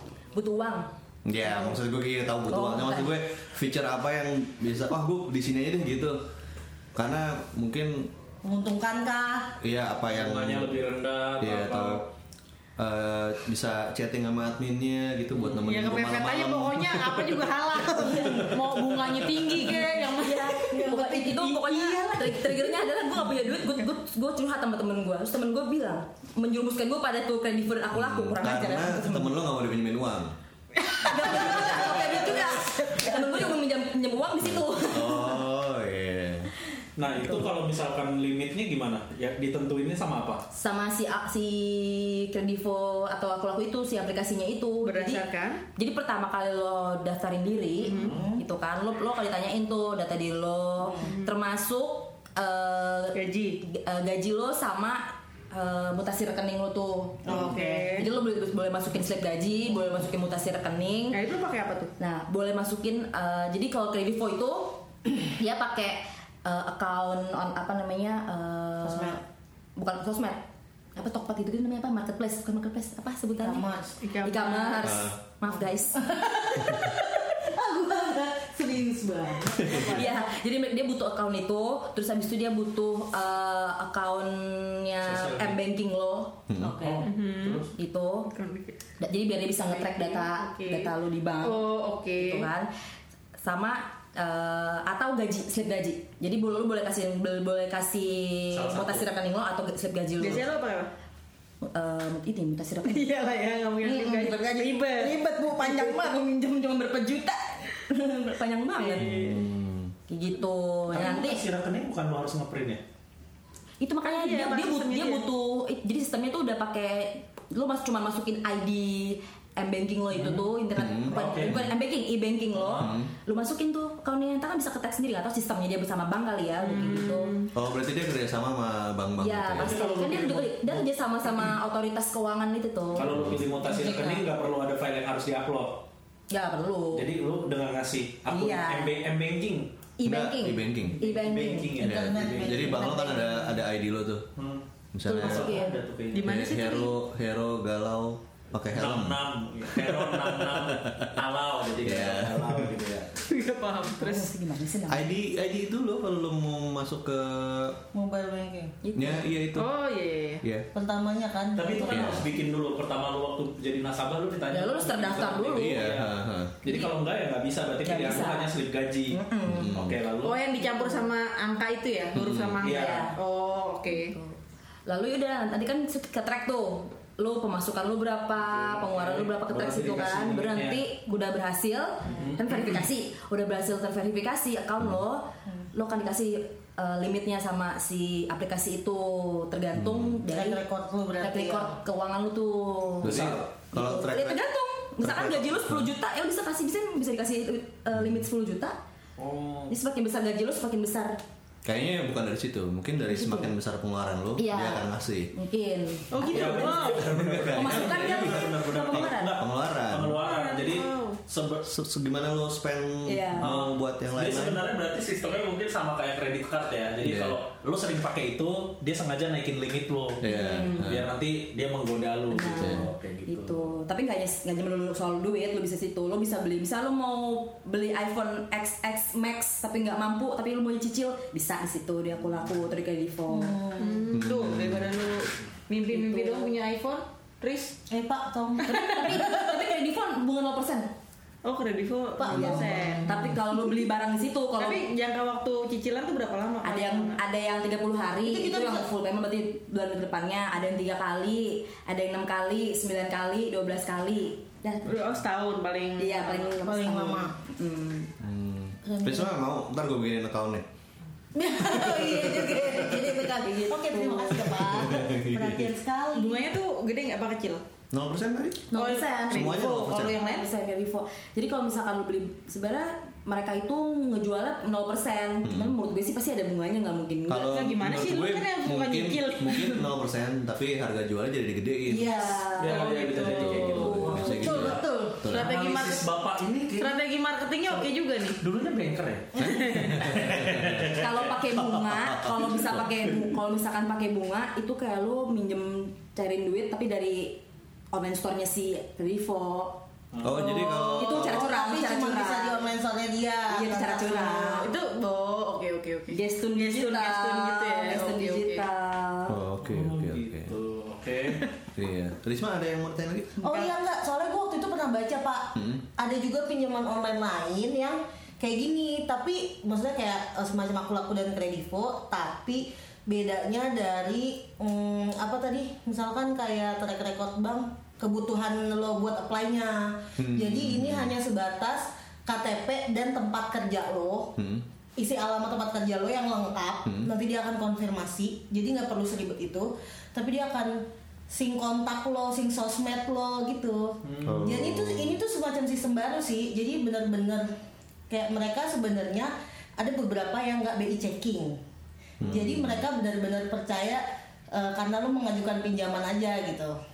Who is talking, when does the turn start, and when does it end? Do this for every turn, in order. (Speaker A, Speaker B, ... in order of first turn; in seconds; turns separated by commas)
Speaker A: 0.3-0.9, Speaker B: 1.2-6.2, Speaker A: 1.4-1.8, Speaker A: 2.5-3.1, Speaker B: 6.9-8.1, Speaker C: 8.4-9.6, Speaker B: 9.6-10.8, Speaker D: 10.1-12.1, Speaker B: 11.4-12.1, Speaker B: 12.8-19.5, Speaker E: 15.5-22.5, Speaker A: 20.1-29.4, Speaker C: 20.7-22.4, Speaker B: 27.9-30.3, Speaker C: 30.9-33.5, Speaker A: 31.0-35.4, Speaker B: 34.4-36.5, Speaker D: 37.0-40.4, Speaker A: 37.1-37.5, Speaker A: 40.5-61.2, Speaker E: 44.8-45.6, Speaker E: 47.8-48.1, Speaker D: 47.9-48.2, Speaker C: 48.0-48.4, Speaker E: 51.0-51.3, Speaker E: 53.1-53.6, Speaker C: 57.2-58.0, Speaker E: 57.4-58.1, Speaker E: 61.1-61.9, Speaker A: 62.0-69.2, Speaker C: 68.8-69.2, Speaker A: 69.8-73.7, Speaker C: 73.4-74.0, Speaker E: 74.0-75.0, Speaker A: 74.2-76.1, Speaker B: 74.8-75.2, Speaker C: 76.0-80.2, Speaker B: 79.6-79.9, Speaker A: 79.9-87.0, Speaker D: 85.0-85.6, Speaker B: 86.5-86.8, Speaker D: 86.8-87.7, Speaker E: 87.0-87.7, Speaker A: 87.7-88.3, Speaker E: 88.3-88.8, Speaker A: 89.0-92.7, Speaker E: 89.7-92.5, Speaker A: 93.4-100.5, Speaker D: 98.5-99.1, Speaker E: 100.2-100.9, Speaker A: 101.6-103.1, Speaker E: 102.8-105.2, Speaker A: 103.8-109.3, Speaker C: 104.1-104.5, Speaker C: 105.2-106.0, Speaker E: 108.8-109.3, Speaker B: 109.0-109.9, Speaker A: 110.1-111.4, Speaker D: 110.9-112.8, Speaker A: 113.8-127.4, Speaker E: 114.1-115.2, Speaker D: 120.1-120.4, Speaker B: 120.8-121.7, Speaker D: 121.1-121.7, Speaker D: 122.5-122.9, Speaker B: 122.8-123.1, Speaker E: 126.7-127.5, Speaker B: 127.5-129.8, Speaker A: 129.2-134.2, Speaker D: 129.6-130.8, Speaker D: 132.9-135.8, Speaker B: 133.1-133.4, Speaker A: 136.3-137.1, Speaker D: 136.9-139.7, Speaker A: 138.3-138.9, Speaker A: 140.0-141.8, Speaker B: 140.0-141.0, Speaker D: 141.0-142.7, Speaker C: 141.8-143.4, Speaker B: 141.8-144.3, Speaker A: 142.6-143.4, Speaker D: 144.3-146.3, Speaker B: 144.9-145.6, Speaker A: 145.1-145.8, Speaker E: 146.1-146.9, Speaker B: 146.2-149.2, Speaker D: 148.7-153.2, Speaker B: 149.8-151.2, Speaker B: 151.8-152.7, Speaker E: 153.2-154.3, Speaker A: 153.9-155.1, Speaker B: 154.9-157.8, Speaker C: 157.9-158.7, Speaker A: 158.8-159.2, Speaker B: 158.9-159.7, Speaker E: 159.5-160.4, Speaker B: 160.4-160.7, Speaker C: 160.7-162.1, Speaker D: 161.6-170.3, Speaker B: 161.9-162.3, Speaker A: 164.5-165.8, Speaker B: 165.5-166.6, Speaker A: 167.8-168.5, Speaker A: 169.1-169.7, Speaker B: 169.4-170.0, Speaker E: 170.2-174.1, Speaker A: 170.6-171.1, Speaker B: 172.1-172.6, Speaker D: 172.6-173.1, Speaker A: 172.7-173.2, Speaker A: 173.9-190.6, Speaker D: 178.5-180.8, Speaker D: 182.1-182.8, Speaker B: 189.7-190.2, Speaker C: 190.3-191.7, Speaker A: 191.2-198.8, Speaker B: 193.0-194.4, Speaker D: 193.1-193.4, Speaker B: 195.0-195.9, Speaker B: 197.9-198.2, Speaker D: 199.2-199.7, Speaker A: 199.7-201.2, Speaker B: 201.6-205.3, Speaker A: 203.1-203.5, Speaker A: 204.4-206.9, Speaker E: 206.1-207.0, Speaker D: 206.2-211.7, Speaker B: 206.8-210.2, Speaker A: 207.5-209.4, Speaker E: 210.2-211.2, Speaker B: 211.6-214.6, Speaker A: 213.1-213.6, Speaker D: 213.4-223.7, Speaker B: 217.0-217.4, Speaker B: 220.2-221.1, Speaker A: 220.2-220.9, Speaker A: 222.3-233.6, Speaker B: 222.6-222.8, Speaker C: 233.3-234.1, Speaker E: 233.8-237.8, Speaker B: 234.1-234.9, Speaker A: 235.9-236.5, Speaker C: 237.9-239.3, Speaker A: 238.7-240.9, Speaker E: 238.7-239.2, Speaker E: 241.4-243.1, Speaker C: 242.2-243.4, Speaker A: 242.3-244.8, Speaker E: 244.6-247.2, Speaker A: 246.6-255.0, Speaker C: 248.2-248.9, Speaker E: 254.8-256.6, Speaker A: 256.0-258.1, Speaker C: 256.6-257.4, Speaker B: 258.2-260.6, Speaker C: 258.9-259.3, Speaker C: 261.3-266.5, Speaker A: 261.7-264.6, Speaker B: 264.6-265.7, Speaker E: 266.1-267.6, Speaker B: 267.9-268.7, Speaker A: 268.7-277.6, Speaker E: 268.7-270.5, Speaker B: 269.3-270.2, Speaker B: 275.4-275.7, Speaker B: 277.3-282.2, Speaker E: 277.4-279.9, Speaker C: 281.9-285.2, Speaker A: 281.9-284.8, Speaker D: 282.6-284.5, Speaker E: 282.7-283.8, Speaker B: 283.2-285.5, Speaker E: 285.3-286.1, Speaker D: 285.3-287.0, Speaker E: 286.8-288.4, Speaker D: 288.4-289.3, Speaker E: 289.4-290.0, Speaker B: 289.4-290.9, Speaker D: 289.9-291.3, Speaker A: 290.9-297.4, Speaker B: 291.5-292.9, Speaker A: 297.9-299.8, Speaker D: 300.1-300.4, Speaker B: 300.2-301.5, Speaker C: 300.9-304.7, Speaker A: 300.9-302.7, Speaker A: 303.5-304.7, Speaker E: 304.5-308.7, Speaker A: 306.1-309.4, Speaker B: 309.3-310.5, Speaker D: 309.6-311.5, Speaker B: 311.7-313.4, Speaker A: 313.4-313.7, Speaker C: 313.4-334.3, Speaker B: 315.5-315.8, Speaker B: 330.2-331.1, Speaker B: 334.4-334.6, Speaker C: 335.0-347.5, Speaker B: 336.8-337.1, Speaker D: 344.0-344.5, Speaker B: 344.2-345.2, Speaker C: 348.1-351.6, Speaker B: 352.2-352.8, Speaker C: 352.2-356.8